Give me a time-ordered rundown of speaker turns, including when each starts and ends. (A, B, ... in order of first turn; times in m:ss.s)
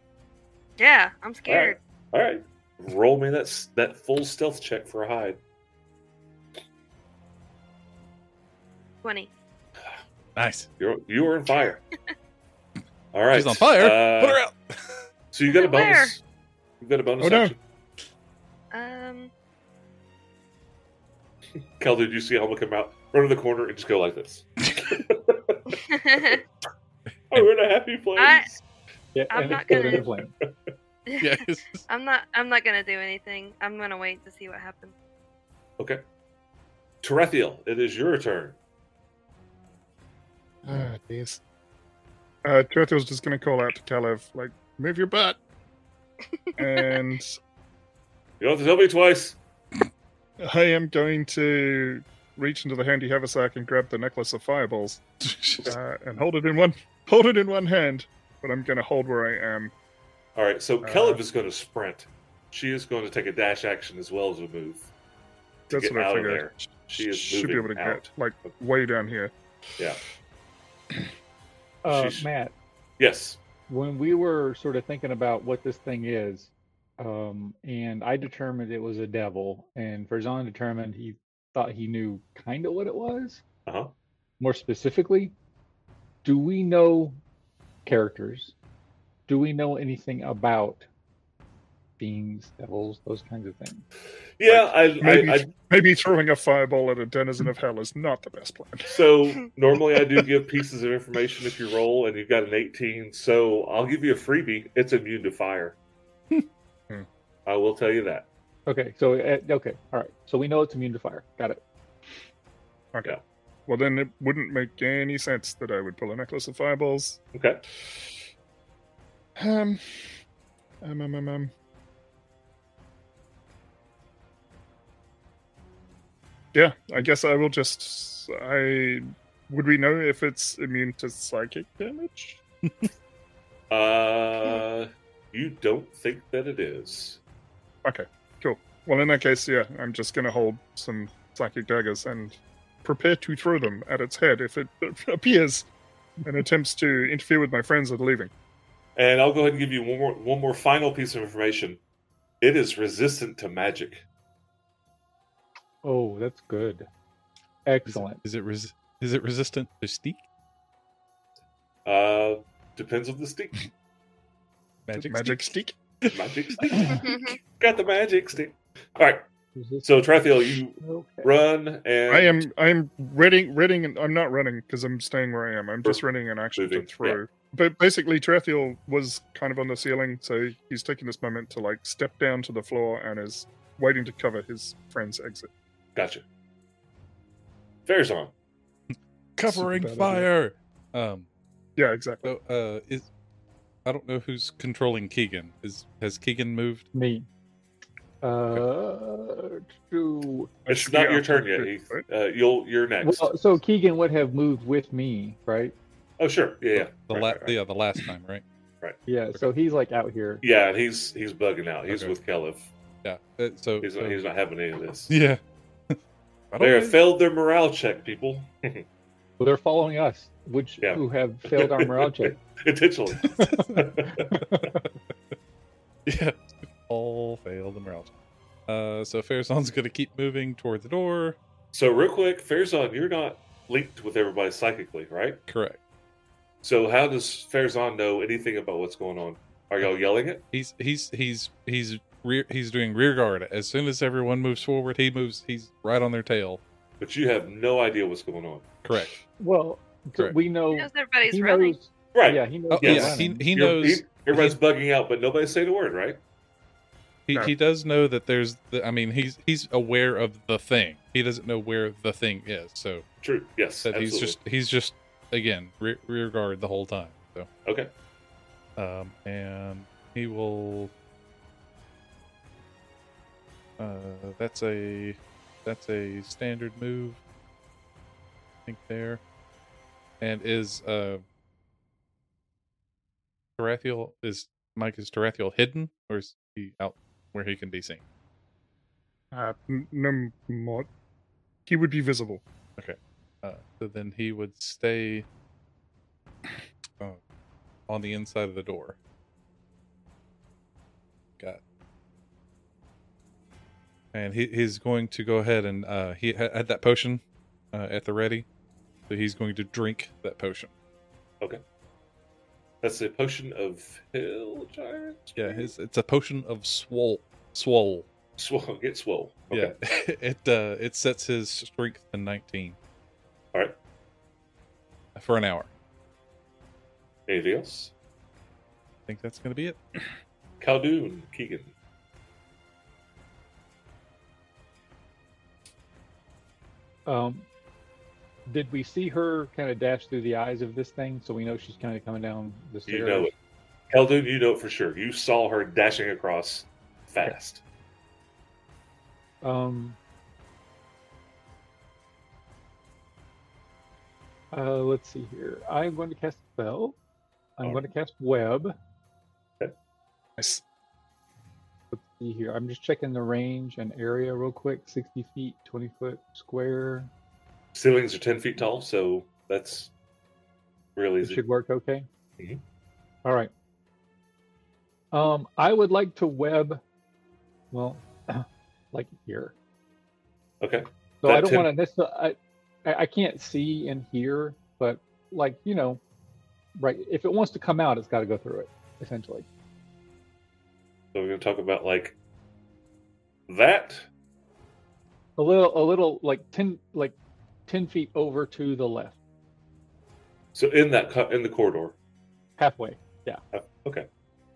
0:00.8-0:01.8 A
0:01.5-0:05.4 B
0:09.0-0:09.3 A
0:10.4-0:10.7 C
0:10.8-0:11.8 B
0:13.1-0:14.4 B
0:13.3-0:15.0 C
0:15.3-0:16.2 B
0:15.5-0:16.1 A
0:16.8-0:17.6 B
0:17.2-0:17.5 D
0:18.7-0:19.3 A
0:21.8-0:26.4 B
0:24.6-0:25.0 C
0:25.8-0:26.4 A
0:27.3-0:28.6 B
0:28.2-0:28.5 A
0:29.2-0:30.3 E
0:29.3-0:30.1 A
0:29.7-0:30.5 B
0:31.1-0:34.9 A
0:31.2-0:31.8 C
0:37.0-0:38.6 B
0:40.6-0:41.4 D
0:42.4-0:45.4 D
0:46.6-0:47.4 D
0:48.4-0:49.4 B
0:50.4-0:55.0 D
0:55.3-0:55.8 C
0:55.6-0:59.7 D
1:00.4-1:04.9 B
1:00.8-1:01.2 D
1:05.7-1:08.6 B
1:05.7-1:09.3 D
1:11.8-1:12.5 E
1:11.9-1:12.3 B
1:13.0-1:13.4 B
1:13.7-1:23.4 E
1:23.7-1:23.9 B
1:24.4-1:25.3 E
1:26.2-1:27.2 E
1:27.9-1:28.5 E
1:29.3-1:30.9 E
1:32.0-1:33.8 E
1:34.4-1:35.5 B
1:34.5-1:38.9 D
1:38.9-1:45.8 B
1:47.5-1:48.3 B
1:48.7-1:51.6 E
1:53.7-1:57.2 D
1:57.3-1:57.6 B
1:59.4-2:00.2 D
2:00.8-2:01.5 D
2:06.5-2:12.4 D
2:13.7-2:17.2 B
2:17.8-2:25.7 D
2:26.3-2:28.3 D
2:29.0-2:31.8 B
2:32.4-2:34.0 B
2:35.8-2:36.9 E
2:37.7-2:38.2 E
2:37.9-2:40.2 C
2:41.8-2:43.7 B
2:44.9-2:45.5 C
2:45.0-2:45.8 D
2:46.1-2:49.2 B
2:46.9-2:47.4 A
2:49.6-2:49.8 E
2:49.8-2:52.4 B
2:50.8-2:51.3 E
2:52.1-3:05.5 D
2:56.6-2:57.2 B
3:06.0-3:06.2 B
3:07.9-3:08.3 B
3:08.9-3:11.3 C
3:09.5-3:10.3 D
3:11.8-3:12.3 D
3:12.2-3:13.1 C
3:13.8-3:16.9 C
3:16.9-3:17.3 E
3:18.2-3:20.5 E
3:20.7-3:22.0 D
3:20.7-3:23.4 B
3:23.0-3:25.7 E
3:26.2-3:27.6 B
3:26.8-3:28.4 C
3:29.1-3:30.4 E
3:30.4-3:32.7 B
3:31.9-3:32.2 C
3:33.0-3:34.2 C
3:33.8-3:35.1 B
3:35.1-3:36.0 C
3:36.5-3:37.0 C
3:36.6-3:38.8 B
3:39.4-3:42.4 E
3:40.8-3:44.4 B
3:43.4-3:44.8 C
3:43.4-3:44.6 E
3:46.1-3:48.1 C
3:48.7-3:51.4 C
3:51.7-3:55.4 B
3:55.5-3:55.8 C
3:56.6-4:00.4 B
4:00.5-4:06.6 C
4:07.0-4:08.7 B
4:08.8-4:09.1 C
4:09.4-4:13.5 E
4:10.7-4:11.8 A
4:12.1-4:16.2 B
4:12.7-4:14.6 C
4:17.3-4:23.0 C
4:23.2-4:24.4 B
4:23.8-4:27.5 C
4:27.6-4:27.9 B
4:28.8-4:30.9 C
4:33.8-4:37.2 C
4:38.7-4:39.2 C
4:40.2-4:41.2 C
4:43.6-4:48.0 C
4:49.3-4:50.9 D
4:51.7-4:52.4 D
4:52.8-4:55.3 C
4:57.9-4:59.0 C
5:04.1-5:08.5 C
5:09.1-5:10.7 C
5:12.8-5:15.7 B
5:15.4-5:18.1 C
5:18.4-5:19.8 B
5:19.5-5:22.8 C
5:25.2-5:25.7 C
5:27.3-5:27.9 B
5:29.1-5:29.8 C
5:30.6-5:31.7 B
5:37.1-5:37.5 E
5:38.5-5:43.3 E
5:42.9-5:43.3 B
5:43.9-5:47.6 B
5:49.4-5:50.0 E
5:54.5-5:57.0 E
5:57.6-5:58.8 E
6:00.4-6:00.6 D
6:01.9-6:07.1 E
6:07.7-6:09.9 B
6:11.0-6:11.4 B
6:11.2-6:12.1 E
6:13.2-6:13.5 E
6:15.1-6:16.8 E
6:17.7-6:19.6 E
6:20.6-6:21.7 B
6:21.2-6:26.0 E
6:26.8-6:29.5 E
6:31.1-6:32.2 B
6:33.5-6:34.1 B
6:35.4-6:37.2 E
6:37.7-6:39.2 E
6:40.6-6:42.0 B
6:42.6-6:43.4 E
6:43.5-6:44.1 B